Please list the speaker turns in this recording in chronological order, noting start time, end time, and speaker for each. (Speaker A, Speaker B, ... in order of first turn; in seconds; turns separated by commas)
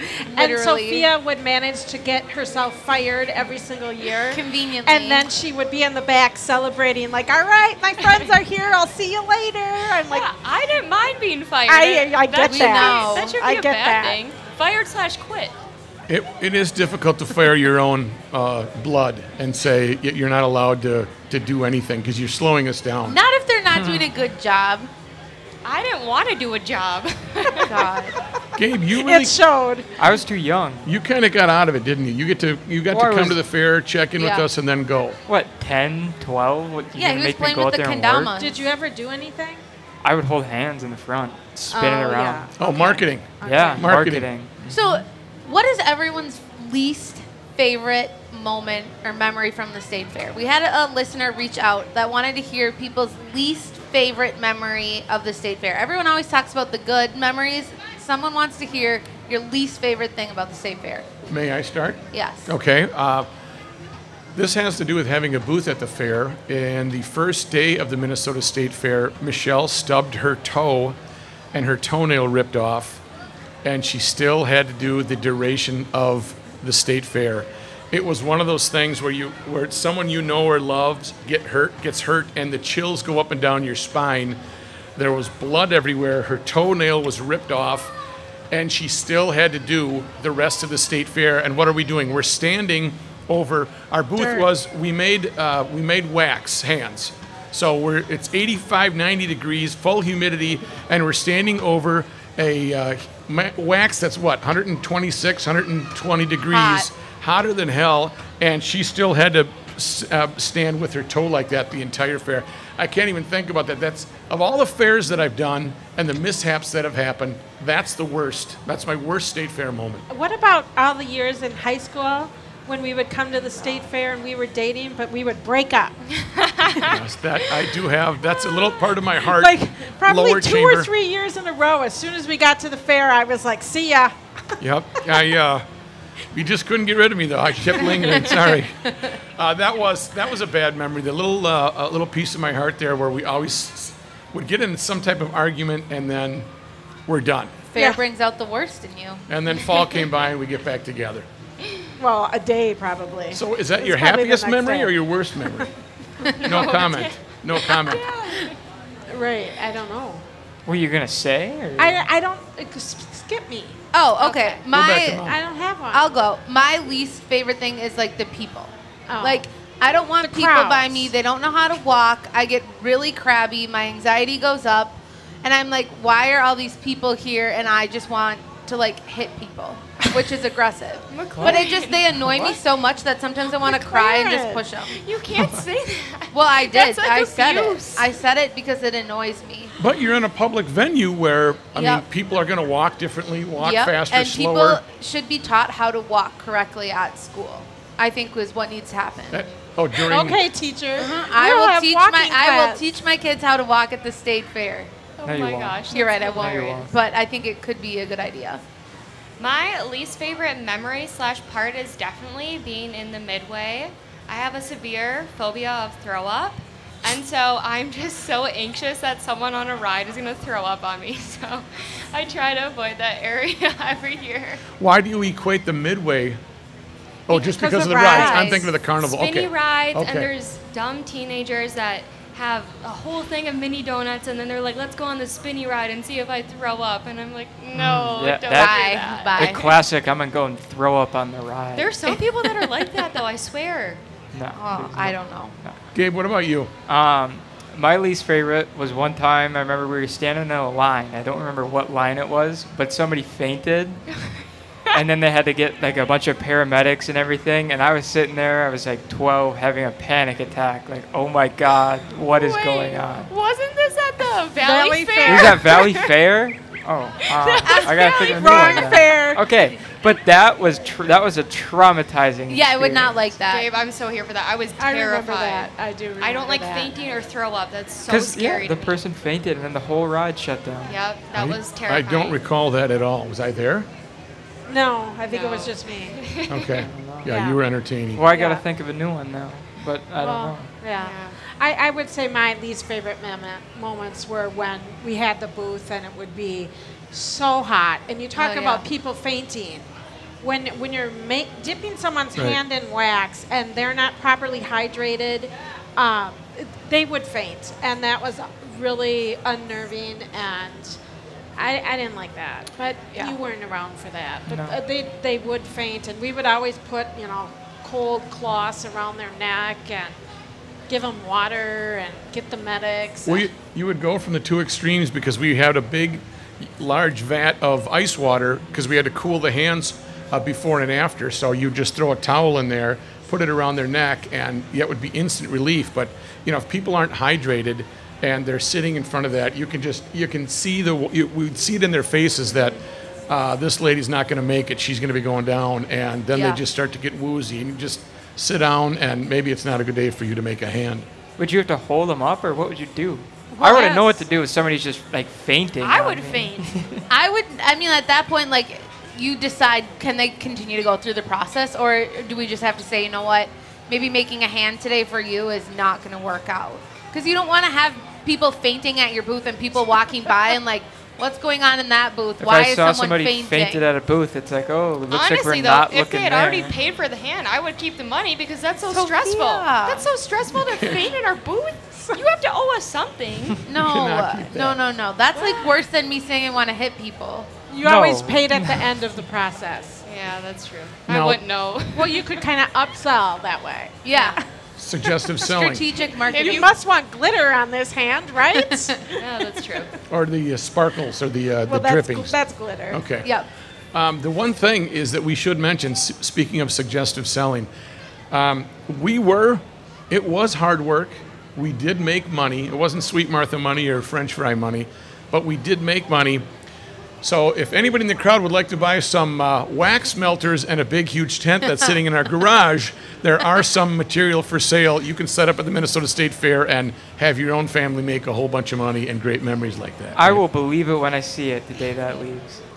Speaker A: 0.3-10.3, Speaker B: 0.3-1.1, Speaker B: 4.3-5.3, Speaker C: 8.0-8.3, Speaker C: 10.1-15.5, Speaker A: 11.7-14.2, Speaker B: 12.4-13.4, Speaker D: 16.1-23.2, Speaker B: 23.1-24.9, Speaker E: 23.7-24.1, Speaker C: 25.6-27.7, Speaker B: 27.7-28.1, Speaker D: 28.6-29.4, Speaker A: 28.9-29.9, Speaker E: 30.0-30.9, Speaker D: 30.9-35.2, Speaker E: 32.9-33.4, Speaker B: 34.2-34.5, Speaker E: 35.3-38.3, Speaker B: 37.0-38.5, Speaker A: 38.4-39.6, Speaker E: 40.0-42.5, Speaker A: 41.7-43.9, Speaker D: 42.6-44.5, Speaker E: 43.4-45.0, Speaker B: 44.7-61.1, Speaker D: 61.3-63.3, Speaker B: 62.1-62.5, Speaker D: 64.3-71.0, Speaker D: 71.5-73.0, Speaker D: 73.6-84.4, Speaker D: 85.0-87.9, Speaker D: 88.5-120.1, Speaker A: 94.2-94.5, Speaker B: 106.5-106.9, Speaker A: 120.1-126.0, Speaker D: 126.9-130.9, Speaker A: 129.2-134.1, Speaker D: 134.6-135.7, Speaker D: 136.3-138.9, Speaker D: 139.4-146.5, Speaker D: 147.1-147.6, Speaker B: 147.7-149.2, Speaker A: 147.8-148.0, Speaker D: 149.3-151.3, Speaker A: 152.0-155.6, Speaker D: 153.3-155.7, Speaker A: 156.3-156.7, Speaker D: 156.4-158.1, Speaker C: 156.4-158.5, Speaker A: 157.8-158.5, Speaker A: 159.1-160.2, Speaker E: 160.7-162.0, Speaker A: 161.8-164.7, Speaker B: 163.9-165.3, Speaker D: 164.7-165.4, Speaker A: 165.2-166.0, Speaker B: 165.9-185.0, Speaker A: 169.1-169.4, Speaker A: 170.2-171.1, Speaker C: 181.1-182.5, Speaker A: 183.6-184.6, Speaker C: 184.9-188.1, Speaker B: 186.3-189.7, Speaker D: 189.8-194.8, Speaker B: 191.8-192.0, Speaker B: 193.6-199.5, Speaker D: 199.3-200.5, Speaker A: 200.1-202.9, Speaker B: 201.0-204.9, Speaker C: 205.2-206.9, Speaker E: 205.2-206.9, Speaker B: 205.9-208.6, Speaker C: 209.4-224.6, Speaker D: 224.8-226.4, Speaker D: 227.3-230.3, Speaker A: 227.3-228.7, Speaker B: 227.9-228.7, Speaker C: 229.0-239.8, Speaker E: 237.7-242.0, Speaker B: 238.5-239.7, Speaker C: 241.8-244.0, Speaker E: 244.3-245.8, Speaker B: 244.5-245.6, Speaker D: 245.9-246.7, Speaker E: 246.9-254.0, Speaker E: 254.9-263.3, Speaker C: 262.3-266.1, Speaker A: 264.6-266.0, Speaker E: 265.2-273.2, Speaker C: 267.4-269.0, Speaker B: 267.7-268.6, Speaker A: 267.7-269.5, Speaker B: 272.5-273.7, Speaker C: 273.5-279.0, Speaker A: 274.8-276.9, Speaker E: 278.1-280.9, Speaker C: 280.9-282.4, Speaker D: 281.3-283.9, Speaker A: 284.7-286.4, Speaker C: 285.3-286.5, Speaker D: 286.5-288.2, Speaker E: 286.8-287.3, Speaker A: 287.3-287.6, Speaker E: 288.1-290.8, Speaker A: 288.3-288.6, Speaker A: 290.2-299.9, Speaker C: 290.9-291.4, Speaker B: 298.4-298.9, Speaker A: 300.4-311.0, Speaker D: 302.4-302.6, Speaker A: 311.6-320.2, Speaker E: 314.5-314.8, Speaker A: 320.9-323.4, Speaker D: 323.2-351.1, Speaker B: 346.3-346.6, Speaker E: 351.4-357.0, Speaker B: 353.5-354.2, Speaker C: 355.8-356.8, Speaker B: 357.1-373.8, Speaker E: 372.4-376.8, Speaker C: 375.1-383.6, Speaker B: 378.9-380.1, Speaker D: 380.6-381.1, Speaker B: 383.7-387.5, Speaker D: 383.8-384.8, Speaker A: 387.7-390.0, Speaker E: 387.8-388.8, Speaker C: 390.0-392.3, Speaker D: 391.1-391.4, Speaker A: 391.9-394.4, Speaker B: 394.0-394.4, Speaker D: 394.8-395.9, Speaker B: 395.4-396.7, Speaker C: 396.3-396.7, Speaker A: 396.3-399.9, Speaker C: 399.2-399.9, Speaker D: 400.1-402.4, Speaker A: 401.7-403.0, Speaker D: 402.9-403.3, Speaker D: 403.9-407.7, Speaker D: 408.3-416.4, Speaker D: 417.2-430.4, Speaker E: 430.1-432.6